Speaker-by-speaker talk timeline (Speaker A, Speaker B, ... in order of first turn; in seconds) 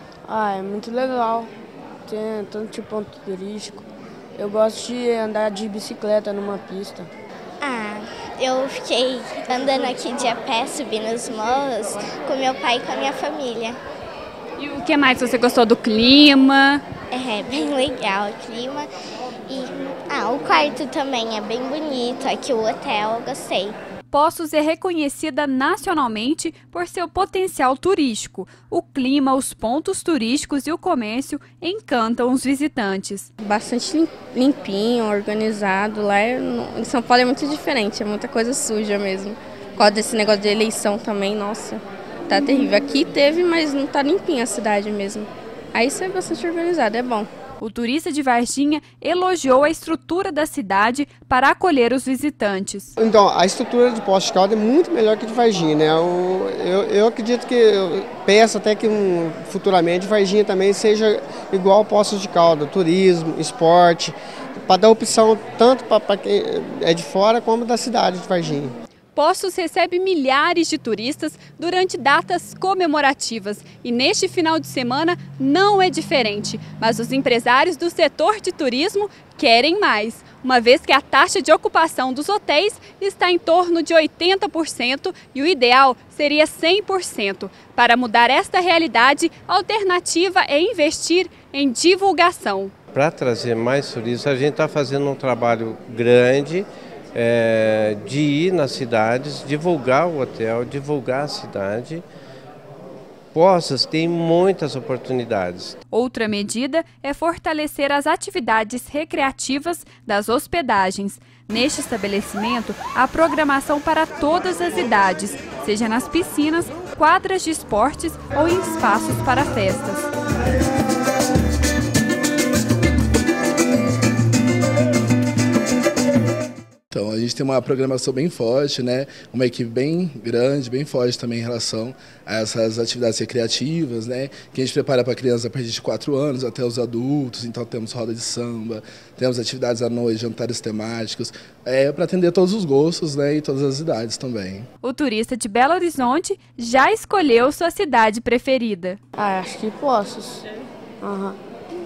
Speaker A: 0.3-1.5, 2.1-7.1, 149.2-150.4, 151.0-151.4
Speaker B: 7.6-13.8, 17.1-18.9, 19.5-23.8
Speaker C: 14.6-16.8, 24.1-33.3, 47.6-52.9, 69.1-92.7, 105.9-120.1, 144.8-149.0
Speaker D: 33.4-47.3
Speaker E: 53.0-64.1, 64.7-68.7
Speaker F: 92.9-102.0, 103.3-105.8
Speaker G: 126.9-144.7